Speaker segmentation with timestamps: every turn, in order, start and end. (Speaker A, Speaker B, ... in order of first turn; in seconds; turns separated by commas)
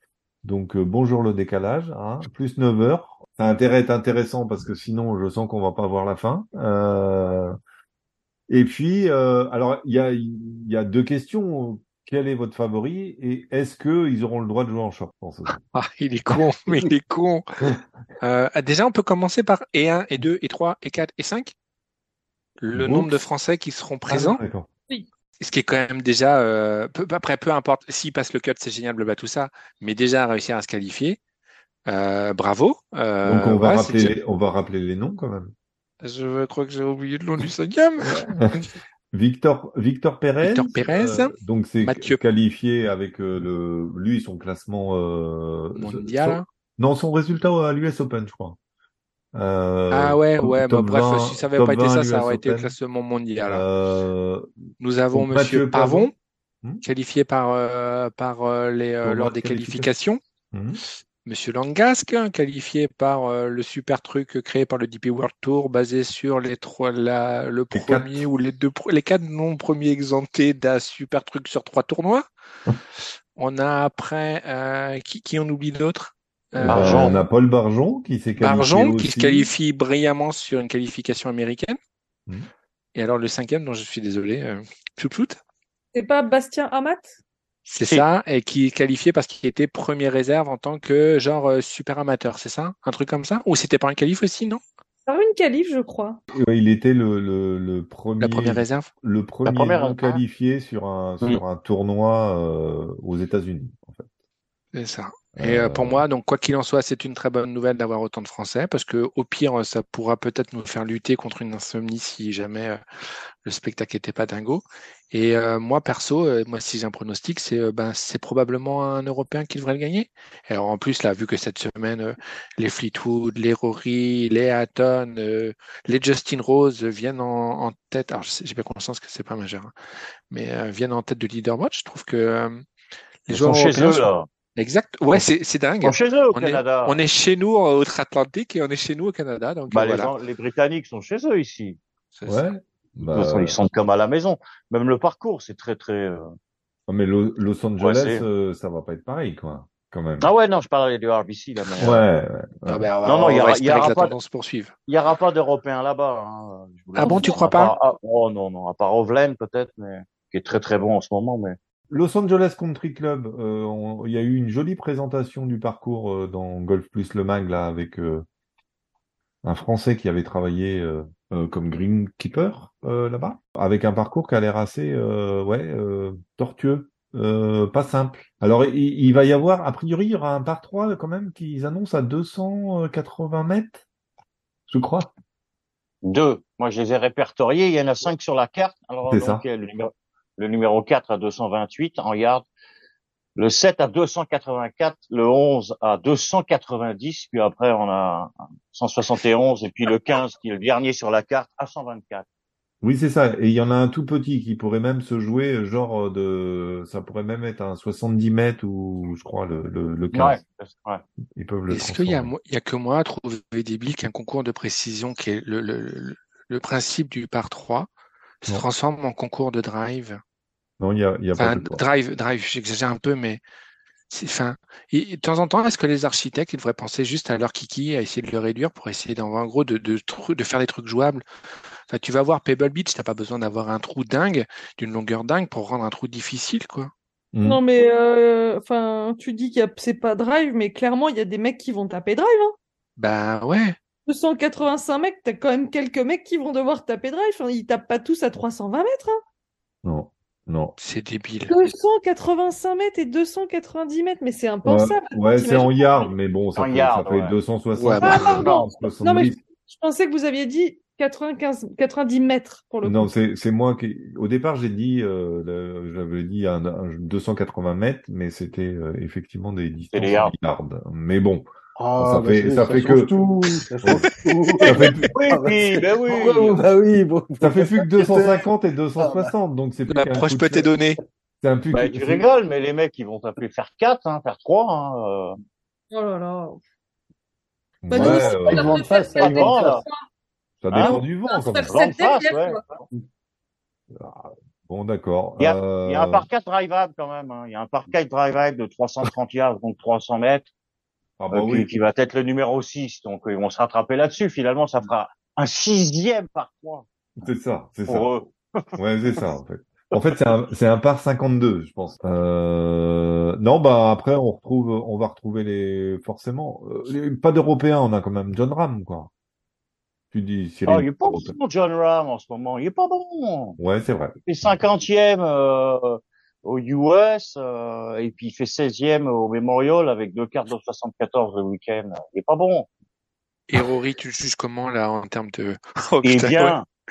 Speaker A: 0.4-7.5, Speaker A: 8.5-15.6, Speaker B: 15.7-17.7, Speaker B: 18.2-21.5, Speaker B: 22.6-24.4, Speaker A: 22.8-23.1, Speaker A: 24.1-24.7, Speaker B: 25.4-31.2, Speaker B: 31.9-34.1, Speaker A: 33.2-35.5, Speaker B: 36.0-38.6, Speaker A: 38.1-48.6, Speaker B: 40.4-42.2, Speaker B: 45.8-46.5, Speaker A: 49.3-52.8, Speaker B: 49.9-53.6, Speaker A: 53.5-54.5, Speaker B: 54.8-56.1, Speaker A: 55.1-56.1, Speaker B: 56.8-60.2, Speaker A: 59.0-59.9, Speaker A: 60.5-60.8, Speaker B: 61.2-72.2, Speaker A: 67.7-68.3, Speaker B: 73.4-77.2, Speaker A: 76.6-79.5, Speaker C: 76.7-77.2, Speaker B: 78.4-81.8, Speaker B: 83.0-85.4, Speaker D: 85.9-87.2, Speaker B: 87.7-94.6, Speaker D: 95.1-96.2, Speaker A: 96.3-104.1, Speaker B: 98.2-98.9, Speaker C: 99.5-100.2, Speaker B: 104.7-112.8, Speaker A: 105.4-106.0, Speaker B: 113.5-129.7, Speaker B: 130.3-132.6, Speaker B: 133.3-140.1, Speaker C: 133.3-134.3, Speaker C: 135.8-137.0, Speaker C: 139.7-141.8, Speaker B: 142.2-142.5, Speaker A: 142.3-143.6, Speaker C: 143.1-146.3, Speaker A: 146.9-150.3, Speaker C: 147.8-148.2, Speaker C: 150.2-152.0, Speaker A: 151.8-152.9, Speaker B: 152.7-154.7, Speaker C: 153.1-154.1, Speaker C: 154.9-161.6, Speaker B: 157.0-157.7, Speaker D: 157.0-157.4, Speaker A: 161.9-168.2, Speaker A: 169.4-183.8, Speaker A: 184.7-185.1, Speaker C: 186.0-192.4, Speaker A: 189.1-189.4, Speaker C: 193.4-202.2, Speaker A: 202.8-210.4, Speaker C: 210.1-211.0, Speaker A: 211.4-212.3, Speaker B: 211.7-217.9, Speaker B: 218.5-220.2, Speaker A: 220.8-221.8, Speaker B: 221.4-223.4, Speaker B: 224.1-231.2, Speaker B: 231.9-236.9, Speaker A: 237.3-237.6, Speaker D: 237.4-242.6, Speaker B: 243.0-243.8, Speaker D: 244.1-249.2, Speaker A: 249.8-250.7, Speaker B: 250.8-251.5, Speaker D: 251.5-256.1, Speaker A: 254.6-259.4, Speaker C: 256.6-257.4, Speaker B: 257.8-258.5, Speaker C: 258.0-258.7, Speaker D: 258.1-263.1, Speaker A: 262.8-271.5, Speaker C: 269.9-270.3, Speaker E: 271.8-278.5, Speaker A: 272.0-273.1, Speaker A: 273.8-274.1, Speaker C: 274.6-276.6, Speaker A: 274.7-275.0, Speaker A: 277.4-280.7, Speaker E: 279.0-279.3, Speaker B: 279.9-281.0, Speaker A: 281.4-282.2, Speaker C: 281.7-285.3, Speaker D: 285.9-286.6, Speaker A: 287.8-288.8, Speaker D: 287.9-290.0, Speaker E: 287.9-289.8, Speaker C: 289.2-289.8, Speaker A: 290.6-291.8, Speaker C: 290.7-291.0, Speaker D: 290.8-292.6, Speaker C: 291.7-292.8, Speaker A: 293.9-296.3, Speaker C: 295.4-300.5, Speaker A: 301.2-301.7, Speaker C: 301.3-306.9, Speaker A: 307.2-308.1, Speaker C: 307.9-308.8, Speaker A: 308.8-319.1, Speaker A: 320.1-321.4, Speaker C: 320.7-323.6, Speaker A: 323.6-324.2, Speaker C: 324.2-332.7, Speaker B: 333.5-336.6, Speaker C: 336.0-336.7